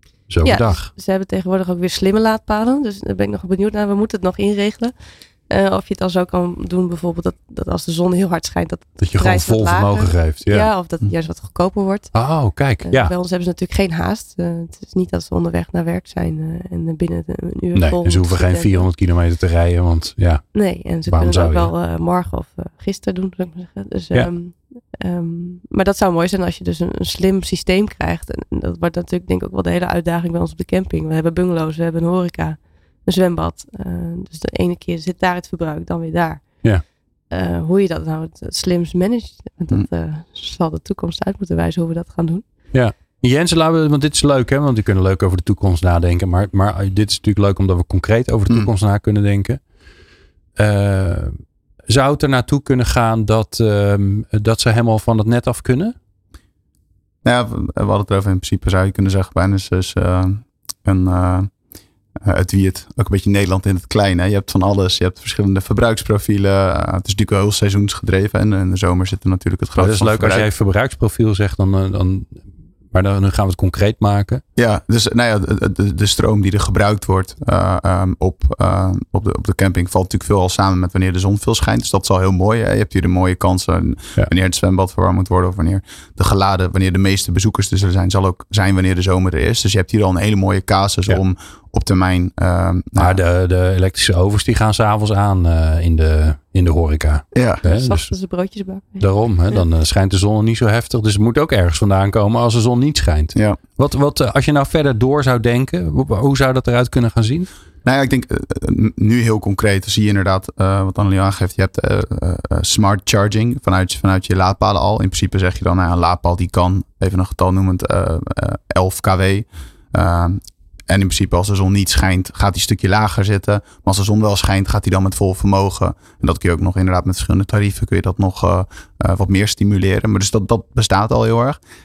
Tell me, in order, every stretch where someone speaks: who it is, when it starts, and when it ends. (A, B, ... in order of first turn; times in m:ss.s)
0:00.3-0:00.9 A
0:00.4-0:04.9 B
0:05.5-0:12.1 B
0:09.0-0:10.7 A
0:12.1-0:13.1 A
0:12.8-0:18.9 B
0:17.7-0:21.7 A
0:20.5-0:36.7 B
0:37.3-0:42.4 B
0:42.7-0:49.6 A
0:50.6-0:51.3 A
0:51.9-0:55.9 A
0:57.2-1:01.5 C
1:02.2-1:10.5 C
1:09.8-1:12.4 A
1:12.9-1:14.4 A
1:14.6-1:33.2 C
1:33.0-1:38.1 A
1:37.3-1:37.6 C
1:37.6-1:39.6 B
1:39.0-1:47.5 A
1:47.8-2:11.6 C